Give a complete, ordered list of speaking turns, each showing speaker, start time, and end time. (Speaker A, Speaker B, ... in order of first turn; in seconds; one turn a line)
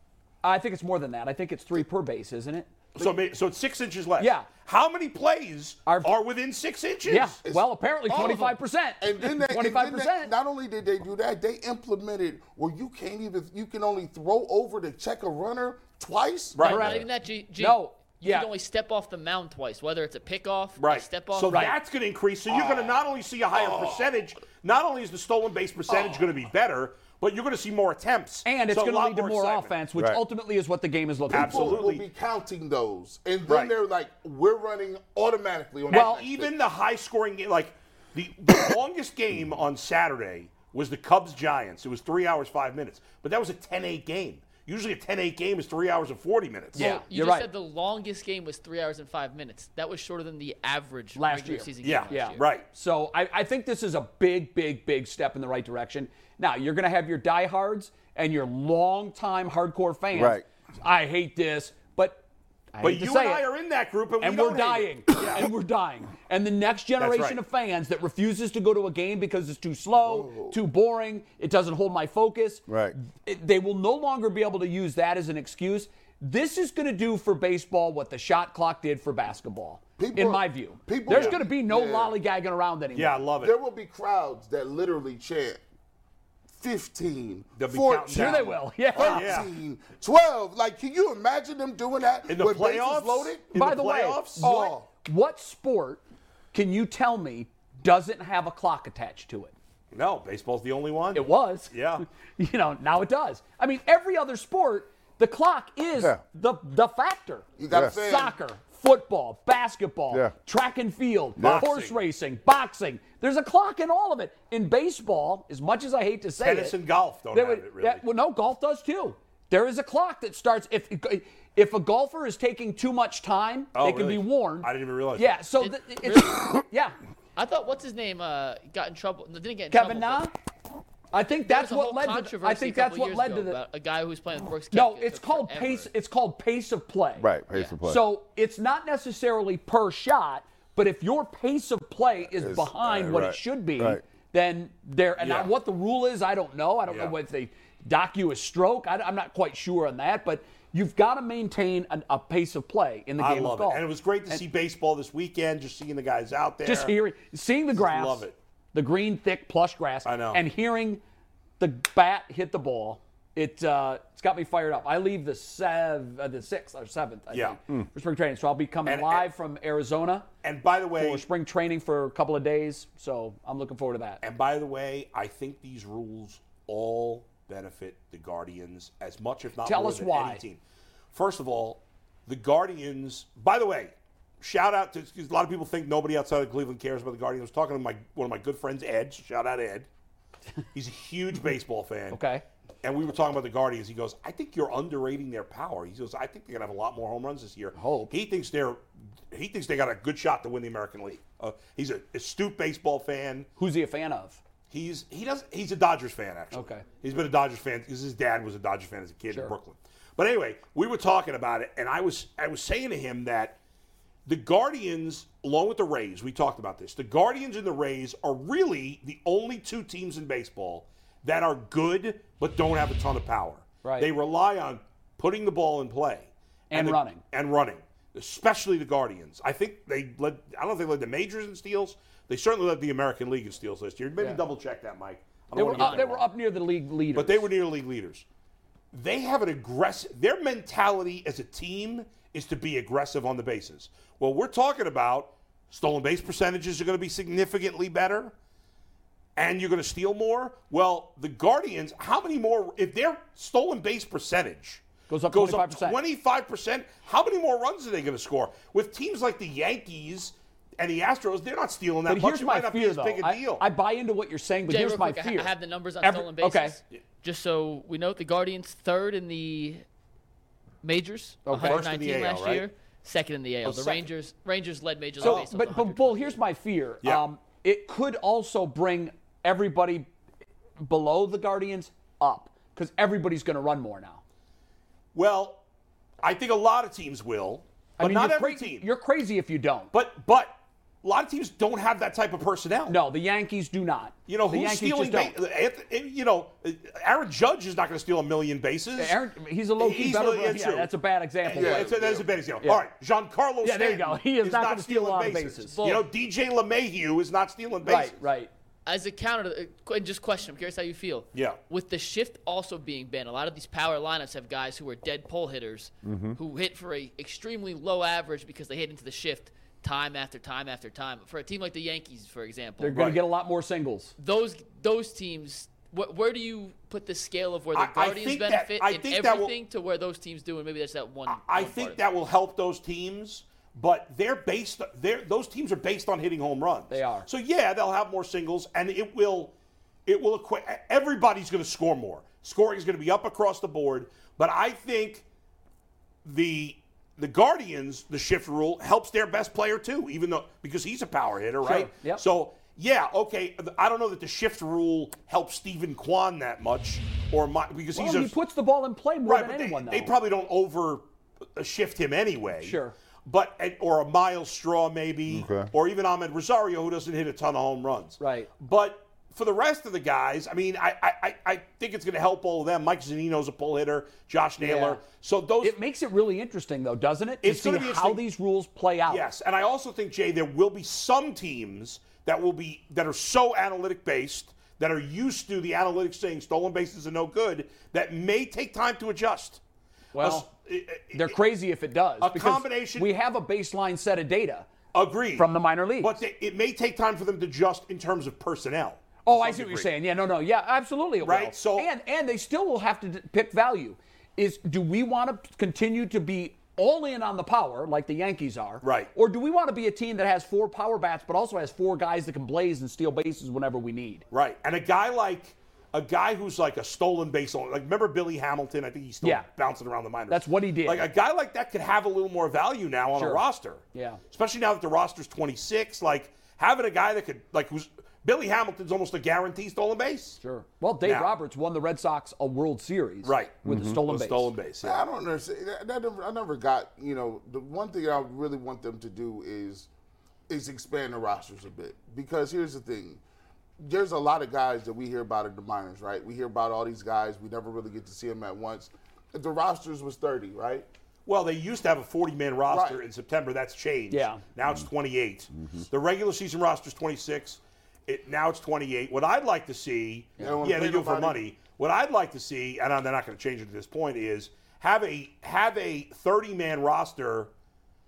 Speaker A: 0.4-2.7
Speaker B: 3.0-7.4
Speaker A: 4.2-4.5
Speaker A: 5.9-6.1
Speaker A: 7.1-10.3
Speaker C: 7.5-16.7
Speaker B: 16.6-17.0
Speaker A: 16.6-18.5
Speaker D: 16.7-21.6
Speaker B: 20.8-29.8
Speaker A: 21.5-21.8
Speaker C: 22.5-22.9
Speaker C: 23.6-24.0
Speaker A: 28.5-31.8
Speaker B: 31.3-32.0
Speaker C: 31.3-36.5
Speaker B: 33.5-33.7
Speaker B: 35.9-46.9
Speaker A: 35.9-36.2
Speaker A: 46.8-47.5
Speaker D: 46.8-52.5
Speaker A: 51.2-62.2
Speaker B: 51.8-52.7
Speaker E: 60.1-60.5
Speaker A: 62.7-63.5
Speaker B: 62.8-65.5
Speaker A: 64.2-83.2
Speaker B: 67.0-67.4
Speaker C: 70.0-70.6
Speaker E: 72.7-73.0
Speaker C: 80.0-82.1
Speaker B: 81.1-81.4
Speaker B: 82.9-83.5
Speaker C: 83.4-85.6
Speaker C: 86.5-93.4
Speaker B: 87.6-89.5
Speaker A: 88.1-89.4
Speaker B: 92.3-94.4
Speaker A: 93.5-96.0
Speaker C: 94.4-94.9
Speaker A: 96.5-99.5
Speaker B: 99.9-102.0
Speaker A: 101.1-101.8
Speaker A: 102.4-116.8
Speaker C: 107.6-108.3
Speaker E: 107.7-108.0
Speaker E: 111.4-111.7
Speaker B: 111.4-112.0
Speaker B: 116.4-118.0
Speaker A: 117.3-127.0
Speaker B: 123.8-125.4
Speaker D: 125.6-126.5
Speaker D: 127.4-130.3
Speaker A: 129.7-130.3
Speaker A: 131.1-133.6
Speaker D: 131.5-135.9
Speaker A: 134.7-137.3
Speaker E: 137.2-138.0
Speaker D: 137.5-137.8
Speaker A: 137.8-154.4
Speaker E: 142.3-144.0
Speaker B: 145.2-145.5
Speaker B: 146.9-147.2
Speaker B: 153.2-157.0
Speaker A: 156.7-161.0
Speaker B: 157.7-158.4
Speaker B: 160.1-160.4
Speaker A: 161.6-170.3
Speaker B: 167.3-167.6
Speaker B: 168.9-169.3
Speaker B: 170.4-171.3
Speaker A: 170.9-174.2
Speaker B: 174.2-180.6
Speaker A: 179.7-180.4
Speaker B: 181.1-189.9
Speaker B: 190.7-192.2
Speaker A: 192.1-192.4
Speaker B: 192.8-203.5
Speaker A: 197.8-198.1
Speaker A: 203.6-204.4
Speaker B: 204.7-213.6
Speaker A: 206.5-206.8
Speaker B: 214.3-236.3
Speaker A: 223.8-224.1
Speaker A: 226.7-227.2
Speaker A: 235.5-237.5
Speaker D: 235.6-236.1
Speaker B: 237.1-238.2
Speaker B: 238.9-248.3
Speaker B: 249.4-263.6
Speaker A: 255.1-256.0
Speaker A: 262.1-266.8
Speaker D: 264.7-269.8
Speaker D: 270.8-276.4
Speaker A: 271.5-271.9
Speaker B: 271.6-272.6
Speaker B: 273.6-274.1
Speaker B: 275.2-275.5
Speaker A: 275.2-280.1
Speaker A: 280.8-284.2
Speaker B: 285.1-285.6
Speaker B: 286.2-288.9
Speaker A: 288.0-289.9
Speaker B: 289.9-293.0
Speaker A: 292.9-295.3
Speaker B: 294.3-299.2
Speaker A: 299.0-301.9
Speaker B: 299.8-300.9
Speaker B: 301.4-308.2
Speaker C: 301.5-302.3
Speaker A: 303.6-305.8
Speaker D: 305.7-306.1
Speaker A: 307.8-308.5
Speaker D: 308.9-323.0
Speaker B: 311.3-311.6
Speaker E: 316.0-316.4
Speaker A: 322.8-324.1
Speaker B: 322.9-323.2
Speaker D: 324.2-332.0
Speaker B: 327.7-329.5
Speaker B: 331.3-339.5
Speaker A: 336.9-337.3
Speaker B: 340.1-345.2
Speaker B: 346.2-358.4
Speaker A: 351.6-352.2
Speaker A: 357.9-360.1
Speaker B: 359.3-361.0
Speaker B: 361.6-375.8
Speaker A: 362.6-362.9
Speaker E: 365.3-365.7
Speaker A: 368.2-368.5
Speaker A: 374.6-375.0
Speaker A: 375.6-379.2
Speaker B: 377.4-378.2
Speaker B: 379.1-389.6
Speaker A: 390.1-390.5
Speaker B: 390.2-391.4
Speaker A: 391.1-394.7
Speaker B: 392.2-393.1
Speaker B: 394.9-399.9
Speaker A: 395.4-396.1
Speaker A: 399.3-414.2
Speaker B: 401.2-401.9
Speaker B: 408.8-409.1
Speaker B: 414.3-430.4
Speaker A: 420.3-421.1
Speaker A: 423.2-424.2
Speaker A: 430.4-434.5
Speaker B: 431.1-431.4
Speaker B: 433.2-435.1
Speaker E: 433.6-434.0
Speaker C: 434.8-439.9
Speaker C: 440.5-443.2
Speaker C: 443.8-450.9
Speaker B: 451.3-467.5
Speaker C: 452.7-453.0
Speaker A: 454.1-454.4
Speaker C: 460.4-461.4